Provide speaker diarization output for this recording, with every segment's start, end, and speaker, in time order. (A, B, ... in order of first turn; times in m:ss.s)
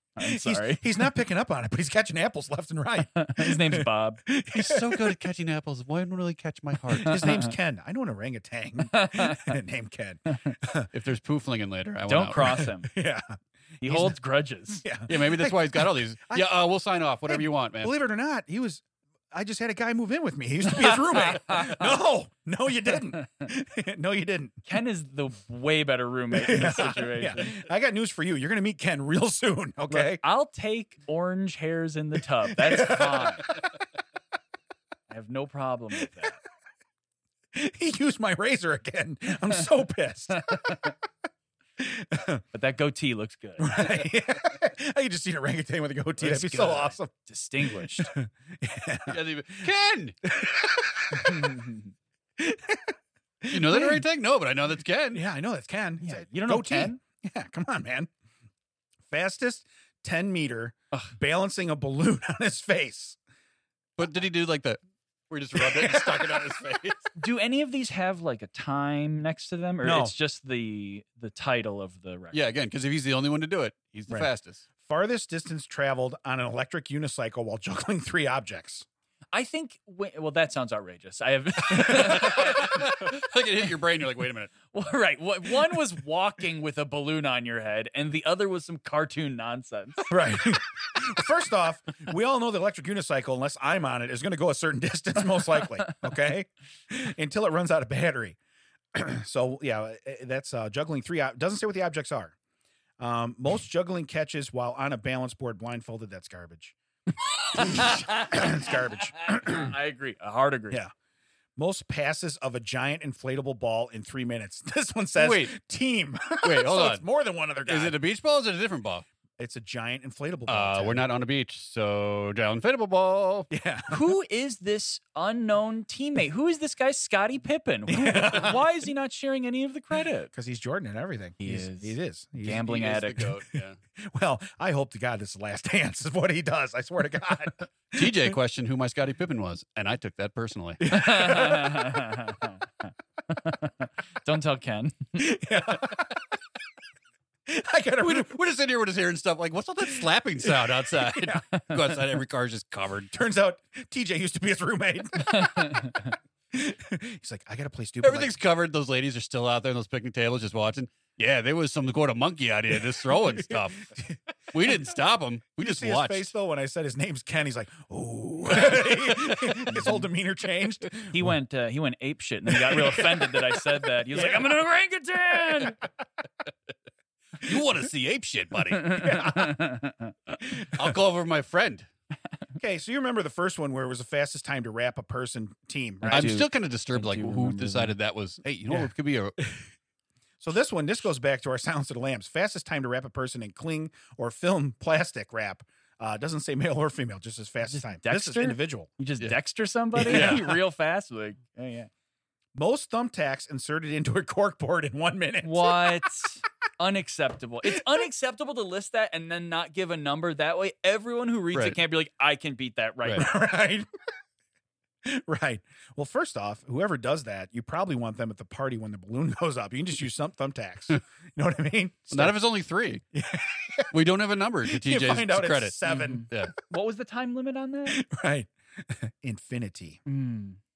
0:00.2-0:00.8 A
0:00.2-0:05.2 B
0:03.2-0:04.2 A
0:04.5-0:07.3 C
0:07.0-0:10.9 B
0:08.9-0:09.5 A
0:10.9-0:12.7 C
0:12.1-0:12.9 A
0:12.4-0:14.2 B
0:13.8-0:14.8 A
0:14.8-0:16.5 B
0:15.1-0:17.9 C
0:17.3-0:24.6 B
0:20.8-0:21.9 A
0:24.7-0:27.5 A
0:26.3-0:30.2 B
0:29.9-0:33.5 A
0:32.5-0:33.6 B
0:35.1-0:36.4 A
0:37.5-0:40.8 B
0:40.5-0:40.9 A
0:41.8-0:42.4 B
0:42.5-0:43.8 A
0:43.6-0:47.1 B
0:46.2-0:48.1 A
0:47.6-0:49.2 B
0:49.1-0:50.2 C
0:50.2-0:51.7 B
0:51.3-0:51.9 A
0:52.4-0:54.0 B
0:53.5-0:55.2 C
0:55.1-0:58.1 B
0:56.0-0:57.0 A
0:59.1-1:03.2 B
1:04.0-1:07.1 C
1:05.6-1:06.6 B
1:07.2-1:12.4 A
1:09.8-1:10.1 B
1:12.3-1:14.7 C
1:14.8-1:18.9 B
1:19.3-1:22.9 A
1:21.9-1:24.5 C
1:24.7-1:30.1 A
1:30.1-1:38.4 B
1:38.9-1:42.3 B
1:43.0-1:46.8 B
1:47.5-1:50.8 A
1:47.6-1:49.7 B
1:51.6-1:58.0 B
1:55.2-1:55.5 C
1:56.4-1:57.0 C
1:57.7-1:59.1 C
1:59.4-2:01.0 B
2:00.5-2:03.5 C
2:03.5-2:04.0 B
2:03.9-2:10.3 A
2:07.9-2:08.6 B
2:10.3-2:12.9 B
2:11.4-2:13.3 A
2:12.6-2:13.8 C
2:13.5-2:18.3 B
2:17.9-2:20.9 C
2:20.8-2:21.9 B
2:20.9-2:22.6 A
2:23.3-2:25.3 A
2:25.2-2:26.2 B
2:27.5-2:28.3 B
2:28.0-2:33.1 C
2:30.4-2:31.4 B
2:33.1-2:38.3 B
2:35.5-2:35.9 A
2:38.0-2:43.9 C
2:43.5-2:44.2 B
2:44.5-2:46.3 C
2:45.6-2:51.3 B
2:51.1-2:55.8 A
2:52.5-2:53.4 B
2:54.1-2:54.5 B
2:57.4-2:59.1 C
2:58.9-2:59.6 B
2:58.9-3:00.1 A
3:00.4-3:00.9 B
3:00.6-3:01.9 C
3:02.6-3:06.4 B
3:06.0-3:08.0 A
3:06.1-3:09.4 C
3:10.4-3:18.9 B
3:17.7-3:21.9 A
3:20.0-3:20.4 B
3:20.0-3:20.5 C
3:22.6-3:25.9 B
3:25.4-3:33.3 A
3:33.1-3:33.9 B
3:35.0-3:42.4 B
3:42.1-3:43.0 C
3:43.1-3:43.9 B
3:43.9-3:45.8 C
3:44.7-3:46.3 B
3:45.9-3:48.0 A
3:47.9-3:50.0 B
3:50.1-3:50.6 A